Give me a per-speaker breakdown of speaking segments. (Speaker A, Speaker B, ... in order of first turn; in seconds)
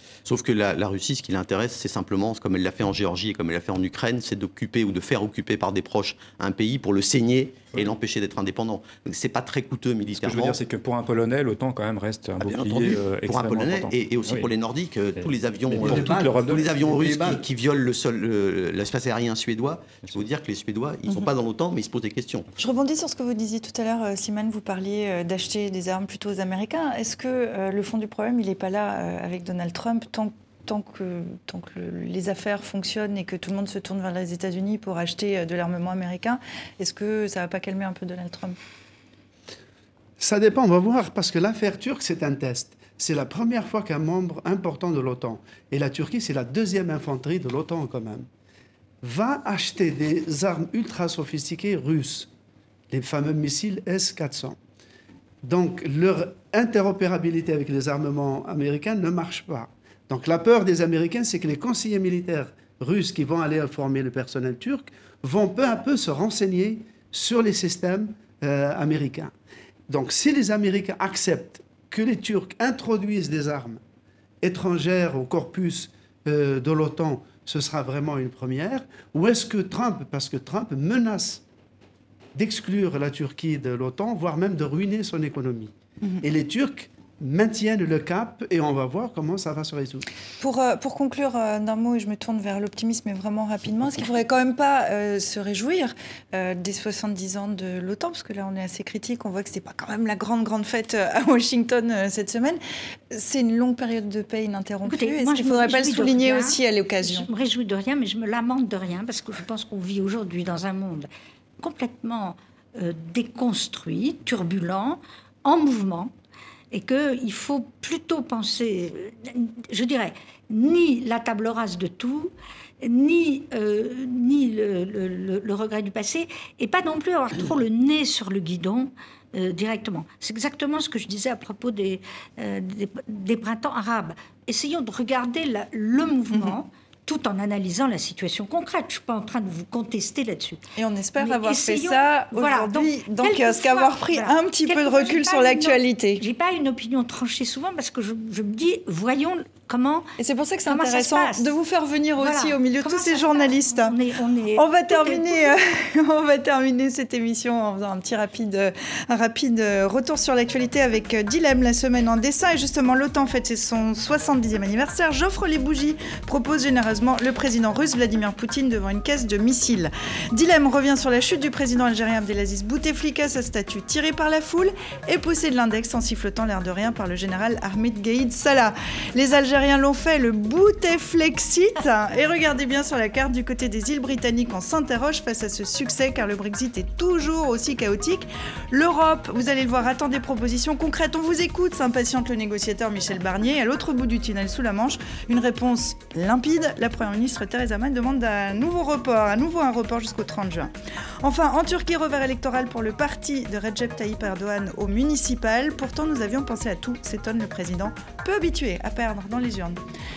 Speaker A: 0.2-10.6, 12.4-22.5
Speaker B: 10.2-14.5, 15.2-16.7
Speaker C: 15.7-17.4, 40.2-48.3, 49.0-52.3, 52.9-54.6, 55.4-69.3, 69.9-73.8, 74.4-81.4, 82.3-90.0
Speaker D: 22.6-38.6, 90.4-102.6, 103.1-107.3, 140.8-146.2, 150.2-154.0, 154.6-209.8
Speaker E: 104.9-111.1, 111.6-116.1, 116.7-140.6, 141.2-150.1, 150.7-151.5, 152.2-155.5